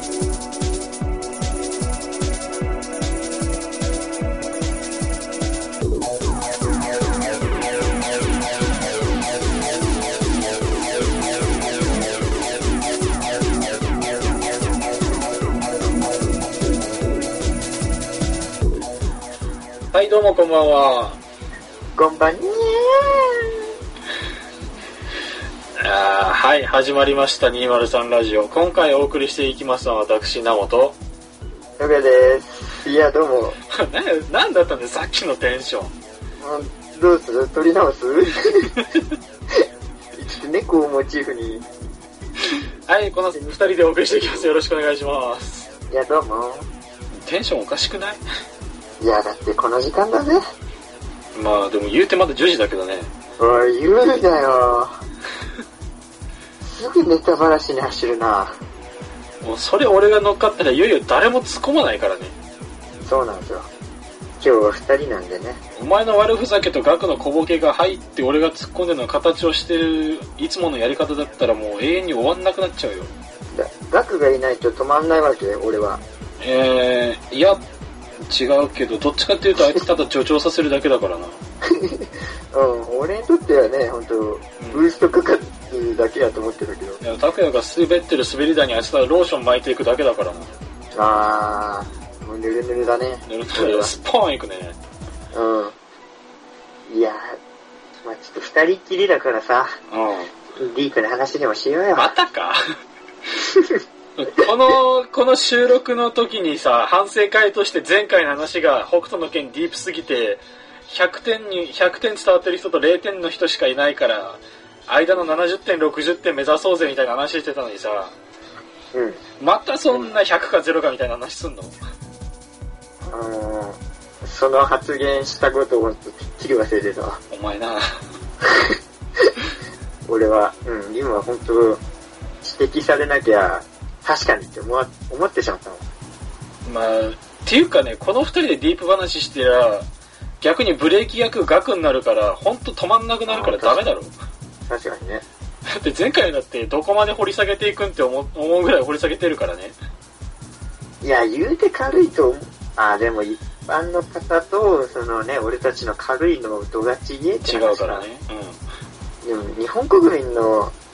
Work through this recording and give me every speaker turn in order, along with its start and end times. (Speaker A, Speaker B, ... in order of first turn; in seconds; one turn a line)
Speaker A: 19.9-21.2
Speaker B: 21.9-23.7
Speaker A: 25.8-31.0
Speaker B: 31.8-33.6
Speaker A: 33.7-35.9
Speaker B: 36.4-38.8
Speaker B: 39.5-41.7
Speaker A: 42.5-45.7
Speaker B: 43.3-44.5
Speaker B: 45.9-46.7
Speaker A: 47.1-48.2
Speaker B: 49.0-50.4
Speaker A: 51.3-53.1
Speaker B: 53.4-55.0
Speaker B: 56.6-58.6
Speaker A: 59.4-62.4
Speaker B: 63.0-63.7
Speaker B: 64.4-65.6
Speaker A: 65.8-73.1
Speaker B: 73.5-76.0
Speaker A: 76.4-77.6
Speaker A: 78.3-81.4
Speaker B: 81.7-87.0
Speaker A: 84.6-84.8
Speaker A: 87.0-90.5
Speaker B: 90.9-93.9
Speaker A: 93.2-94.8
Speaker B: 95.3-95.8
Speaker B: 96.9-97.4
Speaker B: 98.0-99.8
Speaker A: 99.9-100.3
Speaker B: 100.5-102.1
Speaker A: 102.0-102.6
Speaker B: 103.4-103.8
Speaker A: 104.2-118.1
Speaker B: 118.9-119.2
Speaker A: 119.4-121.8
Speaker B: 119.9-120.2
Speaker B: 123.1-127.2
Speaker A: 127.3-128.0
Speaker B: 128.4-129.3
Speaker B: 130.1-131.8
Speaker B: 132.4-135.8
Speaker A: 136.7-139.9
Speaker A: 140.4-144.1
Speaker B: 143.3-143.8
Speaker B: 144.7-145.2
Speaker A: 145.7-149.8
Speaker B: 151.0-158.1
Speaker A: 157.4-158.6
Speaker B: 159.2-160.7